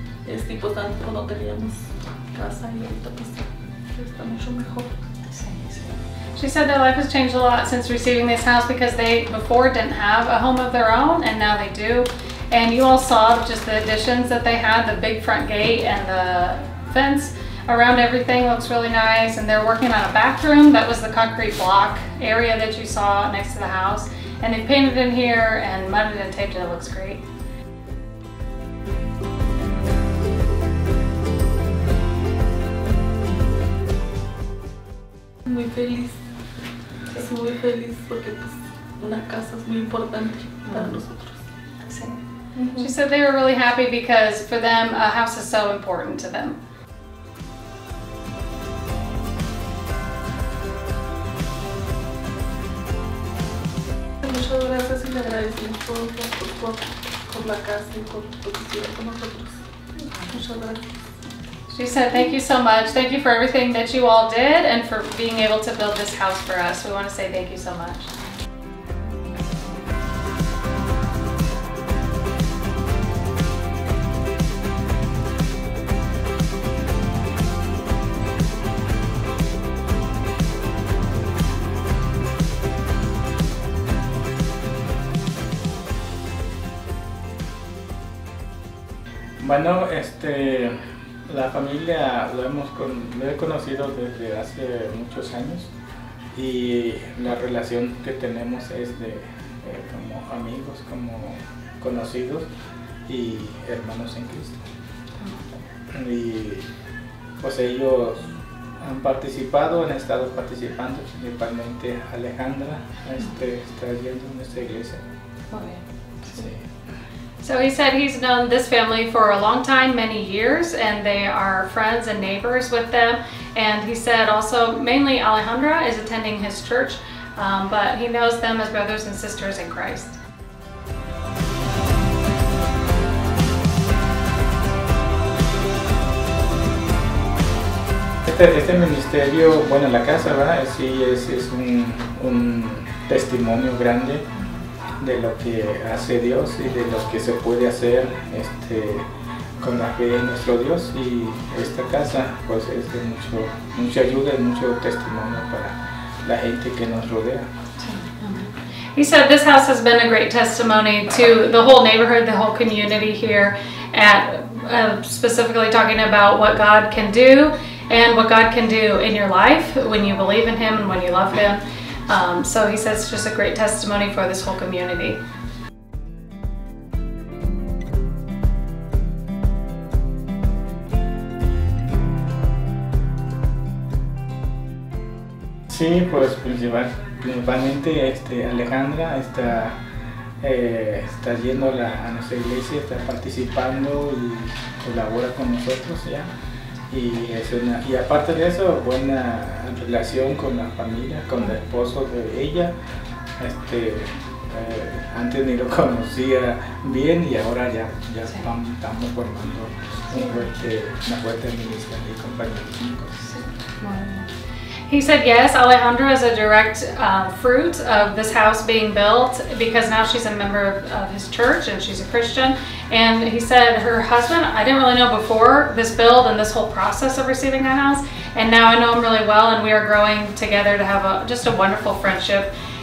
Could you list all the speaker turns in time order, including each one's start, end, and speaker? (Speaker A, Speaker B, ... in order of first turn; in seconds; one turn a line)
Speaker A: 0.2-4.9
Speaker B: 5.3-27.2
Speaker A: 35.5-36.2
Speaker A: 37.1-41.4
Speaker B: 40.7-41.0
Speaker B: 41.8-42.2
Speaker A: 42.5-42.9
Speaker B: 42.8-46.6
Speaker A: 54.2-59.6
Speaker A: 60.3-60.8
Speaker B: 61.7-68.1
Speaker C: 89.4-95.7
Speaker C: 96.3-102.5
Speaker C: 103.1-104.6
Speaker C: 105.9-106.7
Speaker C: 107.4-115.0
Speaker B: 115.5-116.4
Speaker C: 116.3-116.6
Speaker B: 117.4-130.2
Speaker C: 138.2-144.3
Speaker C: 145.0-149.1
Speaker C: 149.6-157.5
Speaker B: 157.8-175.2
Speaker C: 185.7-189.8
Speaker C: 190.4-196.3
Speaker C: 196.9-202.7
Speaker C: 203.4-213.2
Speaker B: 213.3-214.3
Speaker B: 214.9-232.5